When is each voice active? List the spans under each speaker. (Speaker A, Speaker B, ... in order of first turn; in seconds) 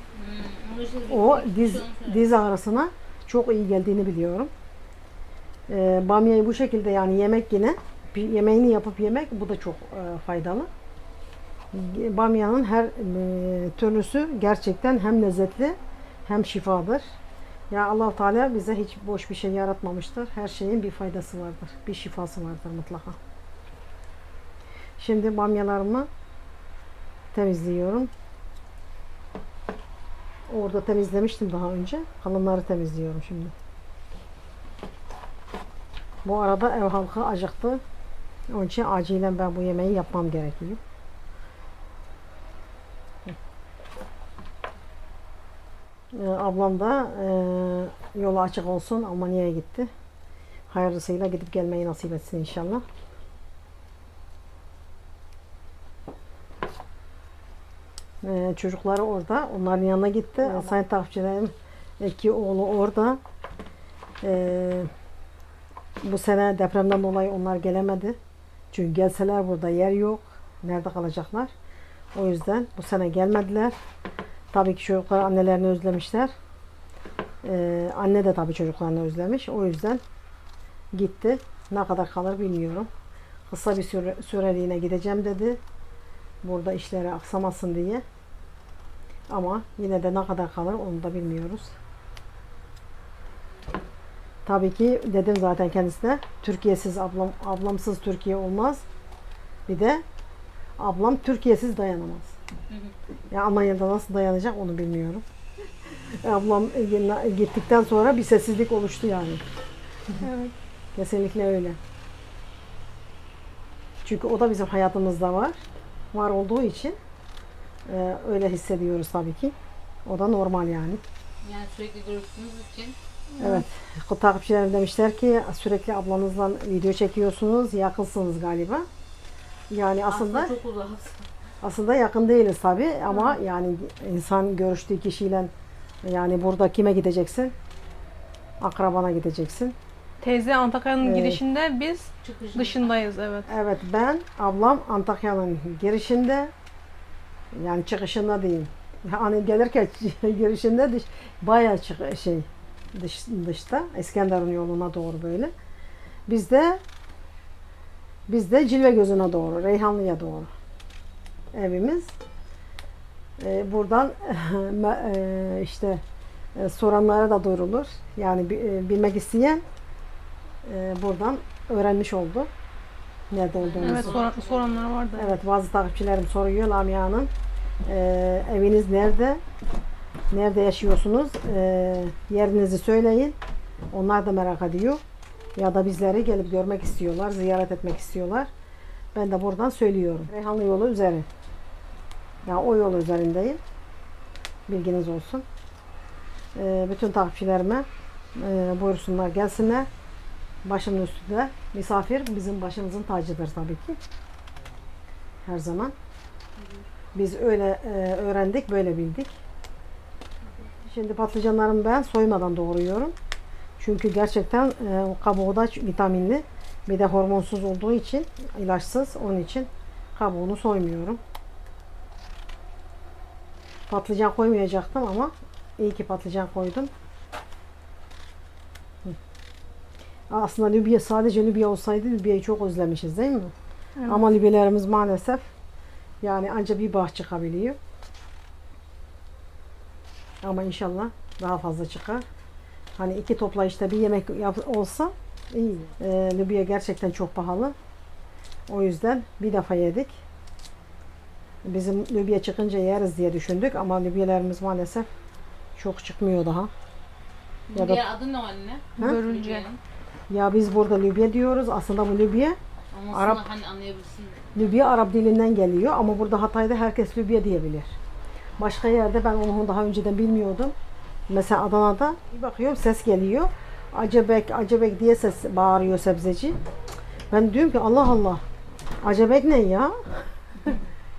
Speaker A: 0.1-2.3, 102.7-103.0, 121.4-123.0, 130.1-131.3, 142.2-143.0, 173.6-174.9, 206.6-206.9, 257.7-259.8, 262.9-264.8
Speaker B: 1.1-4.5, 5.7-10.7, 11.7-17.0, 17.7-23.2, 25.0-26.1, 27.3-28.1, 30.5-33.5, 36.2-37.8, 38.5-40.8, 46.1-49.9, 50.7-52.9, 58.2-63.2, 64.2-64.9, 66.0-68.2, 68.7-71.5, 72.2-73.8, 74.5-76.3, 77.4-80.0, 81.0-82.9, 83.5-85.6, 86.4-88.0, 89.3-91.8, 94.5-98.8, 99.7-100.0, 100.8-102.4, 103.3-105.2, 106.2-109.4, 111.0-111.8, 114.0-115.6, 116.1-117.0, 117.9-119.5, 120.1-121.0, 123.4-128.9, 129.7-130.5, 131.6-135.5, 136.1-137.5, 138.6-139.8, 141.0-141.4, 143.5-146.5, 147.5-155.5, 156.3-156.8, 158.3-160.5, 161.5-162.1, 163.4-166.0, 166.6-169.6, 170.7-172.5, 173.3-174.1, 175.2-177.3, 177.9-179.4, 180.3-183.4, 183.9-185.0, 185.6-188.5, 189.1-191.3, 192.4-193.6, 194.7-195.4, 196.6-199.9, 200.7-204.0, 205.4-205.9, 207.2-209.4, 210.9-213.1, 213.8-221.2, 223.9-226.9, 230.3-233.5, 234.1-235.5, 236.2-237.8, 240.4-242.2, 243.0-247.8, 248.7-250.2, 251.7-255.1, 255.8-256.7, 257.8-258.0, 260.3-262.6, 263.1-263.4, 264.6-268.0, 268.6-270.7, 271.3-276.6, 277.3-278.4, 279.0-280.0
Speaker C: 110.2-110.5, 123.3-123.6, 140.2-143.5, 173.8-175.3, 234.0-234.3, 259.0-259.7